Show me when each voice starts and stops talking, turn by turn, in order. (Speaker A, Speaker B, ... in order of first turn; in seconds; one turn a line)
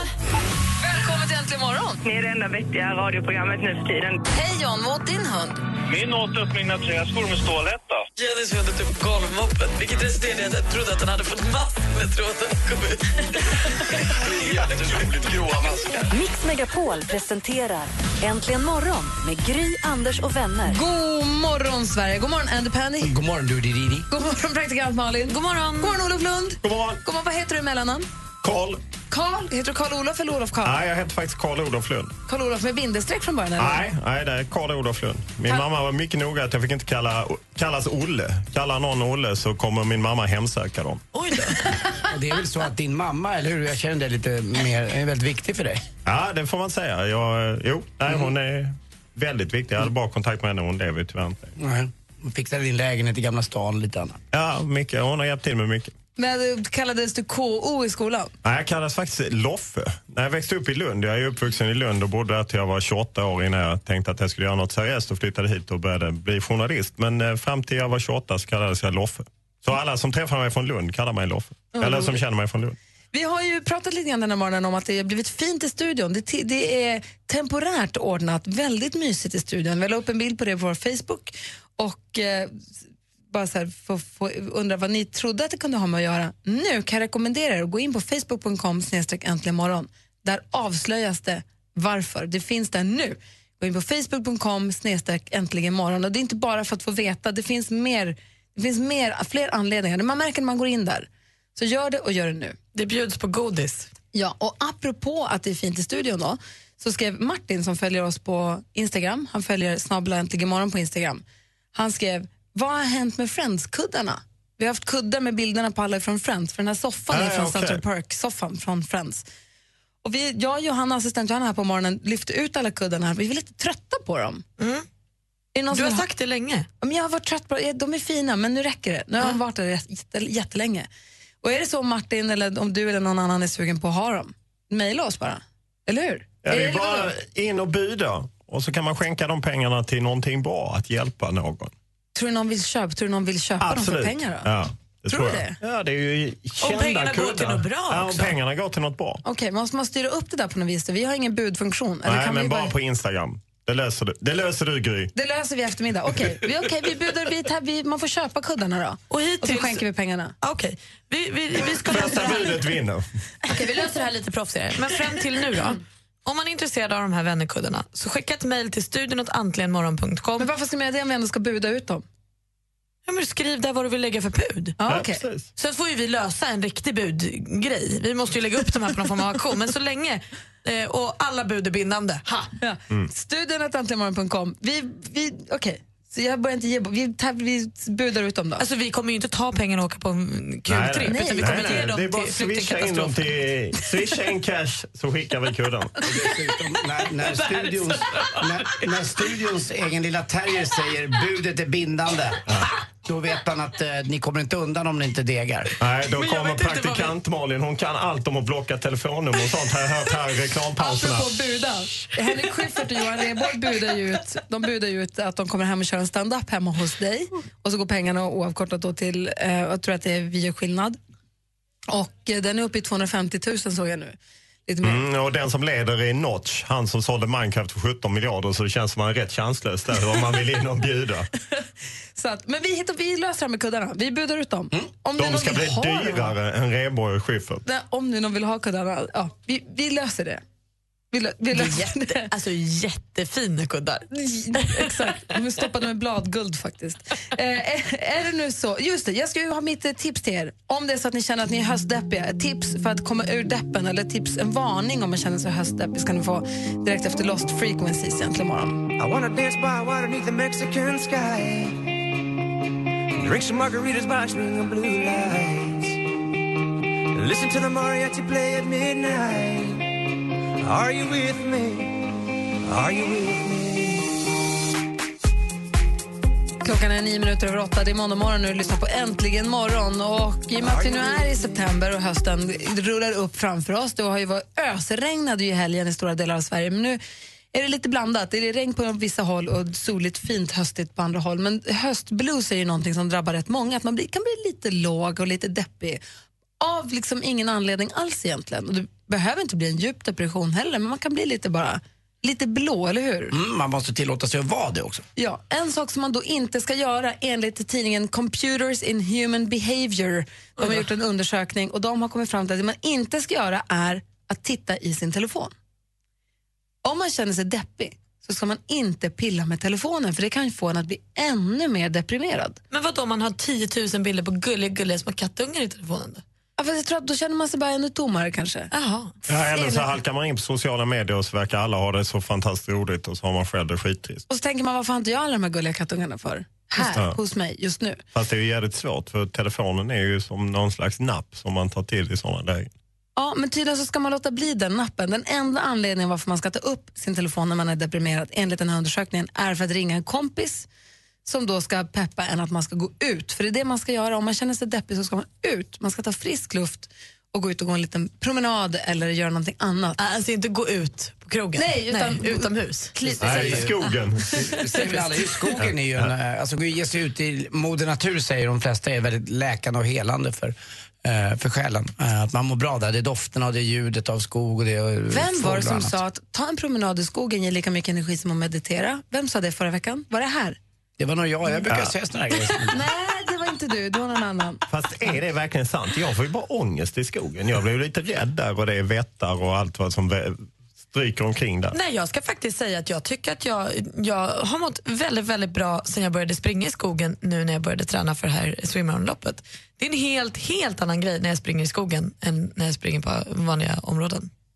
Speaker A: 0.8-2.0
Speaker B: 2.0-4.2
Speaker A: 4.3-5.6
Speaker C: 5.9-8.1
Speaker D: 8.2-14.9
Speaker E: 14.4-15.9
Speaker F: 16.1-20.8
Speaker A: 20.7-23.1
Speaker G: 23.0-24.1
Speaker A: 24.1-28.1
Speaker D: 25.3-26.0
Speaker H: 26.6-27.0
Speaker H: 28.4-28.8
Speaker A: 29.1-30.8
Speaker H: 30.6-32.1
Speaker A: 32.3-33.8
Speaker H: 33.6-41.0
Speaker D: 41.1-41.6
Speaker G: 42.1-45.8
Speaker H: 46.0-51.5
Speaker G: 51.6-54.2
Speaker H: 54.3-55.9
Speaker A: 56.2-58.3
Speaker H: 58.4-72.8
Speaker A: 71.7-72.2
Speaker A: 73.1-82.6
Speaker A: 83.3-102.6
Speaker D: 102.7-103.9
Speaker A: 104.1-111.2
Speaker A: 111.7-119.2
Speaker H: 117.1-117.8
Speaker A: 120.0-124.4
Speaker D: 124.6-124.8
Speaker A: 125.5-126.0
Speaker D: 125.7-126.7
Speaker A: 126.8-130.9
Speaker A: 131.4-137.1
Speaker H: 136.4-141.7
Speaker A: 142.1-144.5
Speaker H: 143.6-149.2
Speaker A: 145.1-145.6
Speaker D: 146.6-148.3
Speaker A: 149.2-152.8
Speaker H: 152.0-155.1
Speaker A: 155.1-160.3
Speaker D: 159.1-159.8
Speaker D: 160.4-162.7
Speaker H: 161.6-163.1
Speaker D: 163.4-170.5
Speaker A: 170.4-172.0
Speaker D: 173.1-174.8
Speaker A: 174.8-175.2
Speaker H: 174.9-175.5
Speaker D: 175.6-182.5
Speaker A: 182.6-188.6
Speaker D: 188.6-193.3
Speaker H: 190.7-195.9
Speaker A: 191.0-191.9
Speaker G: 196.1-202.4
Speaker D: 197.2-198.4
Speaker G: 203.0-205.7
Speaker H: 205.8-211.3
Speaker D: 206.1-207.1
Speaker A: 210.8-221.0
Speaker A: 221.9-224.2
Speaker A: 224.7-225.0
Speaker H: 224.8-231.3
Speaker A: 232.2-236.3
Speaker H: 235.2-237.6
Speaker A: 237.7-240.4
Speaker A: 241.1-242.3
Speaker D: 241.5-245.1
Speaker A: 244.1-258.8
Speaker E: 259.0-261.9
Speaker E: 263.1-266.0
Speaker E: 267.1-270.0
Speaker E: 270.6-272.1
Speaker E: 272.6-274.2
Speaker A: 276.6-287.0
Speaker E: 280.6-281.3
Speaker A: 287.5-296.0
Speaker A: 296.6-303.4
Speaker G: 303.3-305.0
Speaker A: 305.1-315.5
Speaker A: 316.8-322.6
Speaker D: 322.7-326.2
Speaker A: 326.6-328.7
Speaker D: 328.7-329.1
Speaker H: 329.3-334.2
Speaker A: 329.5-329.9
Speaker A: 334.3-338.0
Speaker H: 338.1-342.7
Speaker A: 343.1-350.7
Speaker A: 351.2-360.0
Speaker D: 360.0-362.9
Speaker A: 361.6-363.9
Speaker H: 363.2-364.3
Speaker G: 363.2-363.7
Speaker G: 364.4-376.0
Speaker H: 365.6-366.1
Speaker A: 375.1-380.6
Speaker G: 381.0-382.8
Speaker A: 382.7-384.6
Speaker H: 384.7-391.8
Speaker D: 391.7-404.3